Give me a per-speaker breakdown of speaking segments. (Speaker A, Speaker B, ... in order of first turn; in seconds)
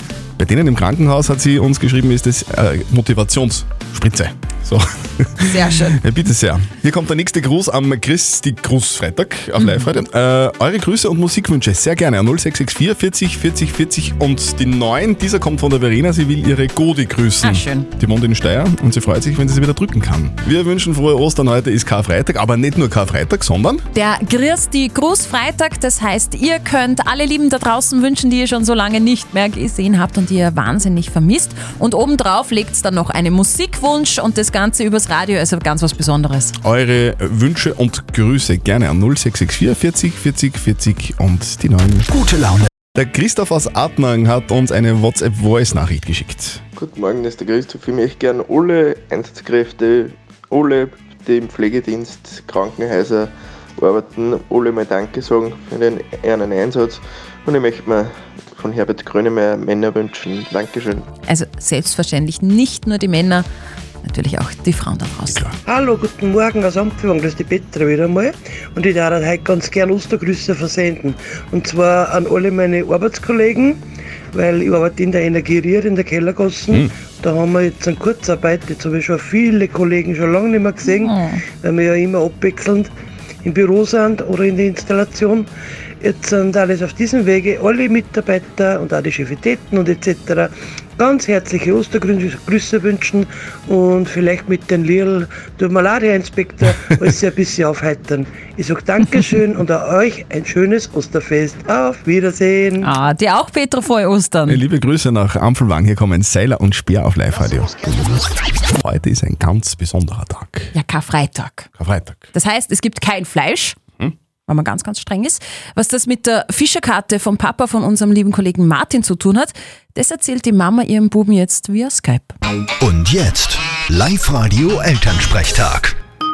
Speaker A: 0.4-23.8, 36.6-42.1, 43.0-46.6, 96.6-97.2, 104.5-107.9, 108.8-110.7, 111.8-112.2
Speaker B: 5.4-6.0, 9.6-9.9, 17.4-17.9, 23.9-36.6, 61.3-63.5, 64.0-65.4, 80.8-81.4, 102.8-104.6, 110.7-111.7, 112.3-113.8, 114.5-122.4
Speaker C: 42.1-42.7, 122.8-126.0
Speaker D: 46.8-53.3, 53.8-57.0, 57.5-61.0
Speaker E: 65.7-73.8, 74.3-82.9, 83.4-85.5, 86.0-102.9